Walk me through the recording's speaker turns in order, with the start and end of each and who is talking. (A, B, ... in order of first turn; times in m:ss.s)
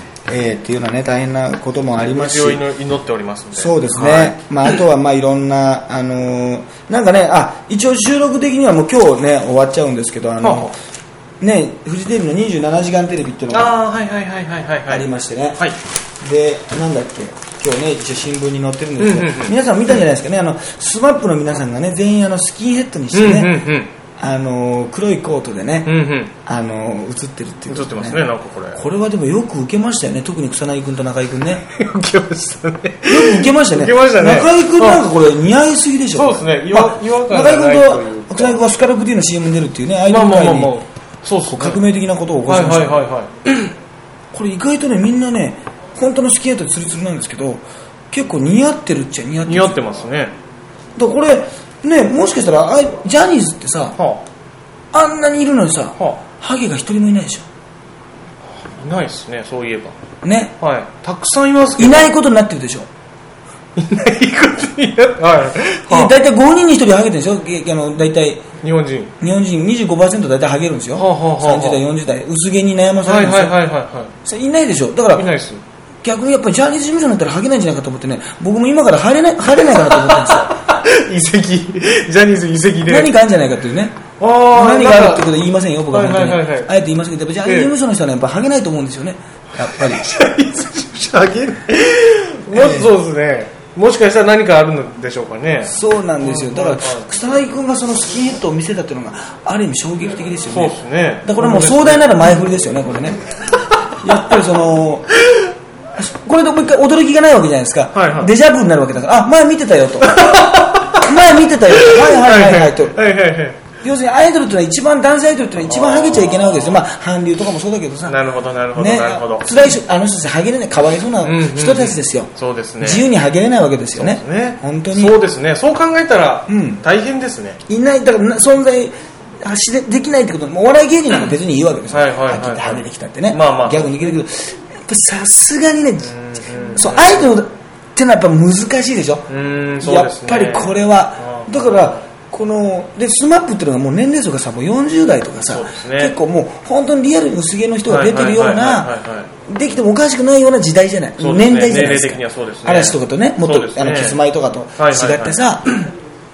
0:00.3-0:02.6 A
0:02.0-0:04.4 B
0:03.6-0:10.7 A
0:10.4-0:10.7 B
0:11.4-0:13.8 A
0:13.5-0:15.1 B
0:14.9-0:15.6 A
0:16.2-0:23.6 A
0:19.0-0:19.6 B
0:23.1-0:23.9 B
0:24.2-0:31.7 A
0:25.8-0:26.3 B
0:27.7-0:28.8 B
0:31.7-0:35.1 B
0:33.1-0:40.7 A
0:36.1-0:38.6 B
0:40.1-0:41.8 B
0:41.5-0:43.0 A
0:42.5-0:43.7 B
0:44.3-0:49.8 A
0:49.5-0:50.3 B
0:51.0-0:54.0 A
0:54.0-0:54.2 B
0:54.9-0:57.4 A
0:58.8-1:00.0 B
1:00.2-1:00.6 A
1:00.6-1:02.1 B
1:01.8-1:02.9 A
1:03.8-1:06.1 B
1:05.9-1:08.5 A
1:08.6-1:09.1 B
1:09.2-1:13.6 A
1:11.0-1:11.8 B
1:13.0-1:14.1 B
1:14.2-1:15.3 A
1:15.1-1:15.6 B
1:16.0-1:20.5 A
1:19.8-1:23.1 B
1:22.9-1:24.0 A
1:24.2-1:25.4 B
1:24.5-1:30.1 A
1:25.9-1:26.7 B
1:27.4-1:27.7 B
1:29.6-1:37.1 B
1:32.5-1:32.9 A
1:35.7-1:43.2 A
1:40.5-1:42.4 B
1:44.0-1:45.1 A
1:46.0-1:53.0 A
1:47.9-1:48.3 B
1:50.1-1:51.1 B
1:51.7-1:53.6 B
1:53.8-1:58.2 A
1:55.7-1:56.8 B
1:58.1-1:59.7 B
1:58.7-2:05.2 A
2:01.2-2:03.1 B
2:04.0-2:07.6 B
2:06.5-2:06.8 A
2:07.7-2:16.1 A
2:11.9-2:14.2 B
2:16.0-2:17.3 B
2:16.7-2:28.9 A
2:19.3-2:22.0 B
2:25.5-2:26.2 B
2:27.9-2:29.3 B
2:29.5-2:35.9 A
2:31.2-2:34.2 B
2:34.8-2:35.4 B